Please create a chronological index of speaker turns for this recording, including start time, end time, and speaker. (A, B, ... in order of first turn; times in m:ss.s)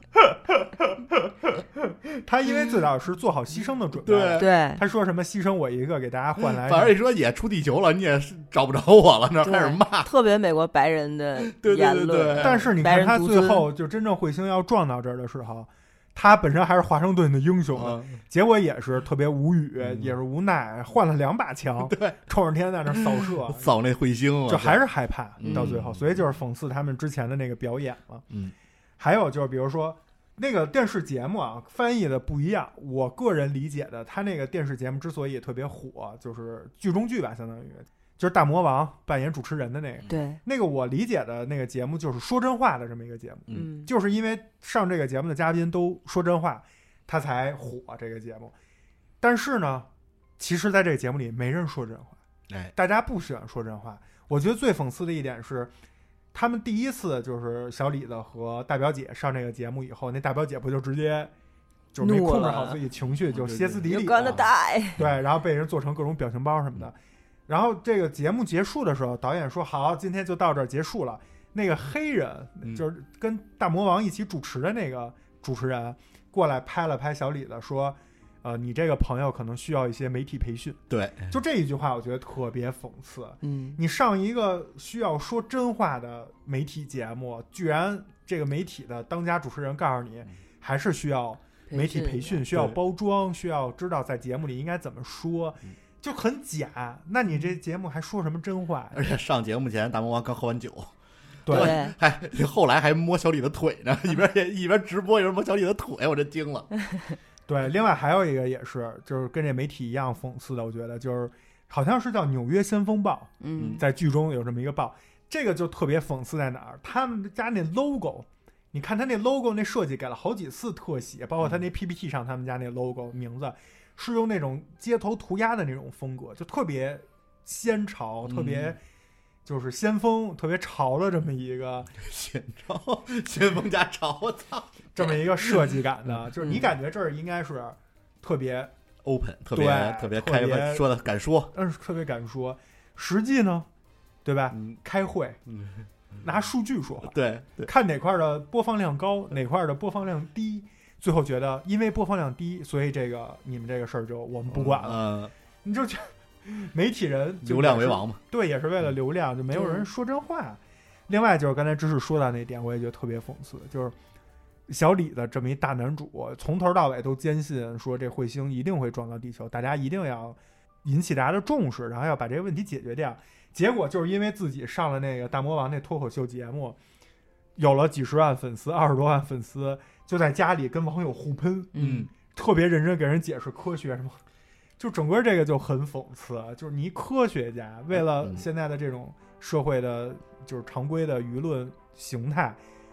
0:00.3-0:06.9 A
0:04.0-0:04.5 B
0:04.4-0:04.8 C
0:06.4-0:10.1 B
0:09.4-0:13.7 C
0:11.4-0:12.7 B
0:12.4-0:23.7 A
0:17.7-0:18.2 B
0:19.8-0:20.2 B
0:21.8-0:22.2 B
0:22.9-0:26.3 B
0:24.5-0:28.2 A
0:29.0-0:48.5 A
0:40.1-0:40.4 C
0:43.5-0:43.9 C
0:49.2-0:52.2 A
0:52.5-0:52.7 B
0:52.7-0:55.7 A
0:56.3-1:01.3 A
1:01.9-1:04.4 A
1:02.0-1:02.8 C
1:03.3-1:05.2 B
1:03.8-1:05.0 C
1:05.0-1:06.9 A
1:07.5-1:39.0 A
1:20.9-1:21.4 B
1:23.4-1:23.8 C
1:31.7-1:32.4 C
1:32.5-1:32.8 B
1:38.9-1:40.9 B
1:41.4-1:41.7 A
1:41.5-1:46.7 B
1:41.5-1:41.9 C
1:47.5-2:08.8 A
1:53.4-1:53.8 C
1:53.6-1:53.8 B
2:08.2-2:08.8 B
2:09.4-2:11.9 A
2:12.0-2:16.7 B
2:14.9-2:18.7 A
2:19.0-2:21.5 B
2:19.5-2:20.8 A
2:21.5-2:23.7 A
2:24.2-2:25.4 A
2:24.5-2:24.8 B
2:25.5-2:25.9 B
2:26.2-2:35.1 A
2:27.0-2:27.7 B
2:34.5-2:35.3 B
2:35.6-2:43.9 A
2:37.4-2:38.2 B
2:39.5-2:39.8 C
2:44.7-2:56.8 A
2:57.6-3:04.2 A
3:01.7-3:02.1 C
3:01.8-3:02.1 B
3:04.8-3:12.6 A
3:07.9-3:08.4 B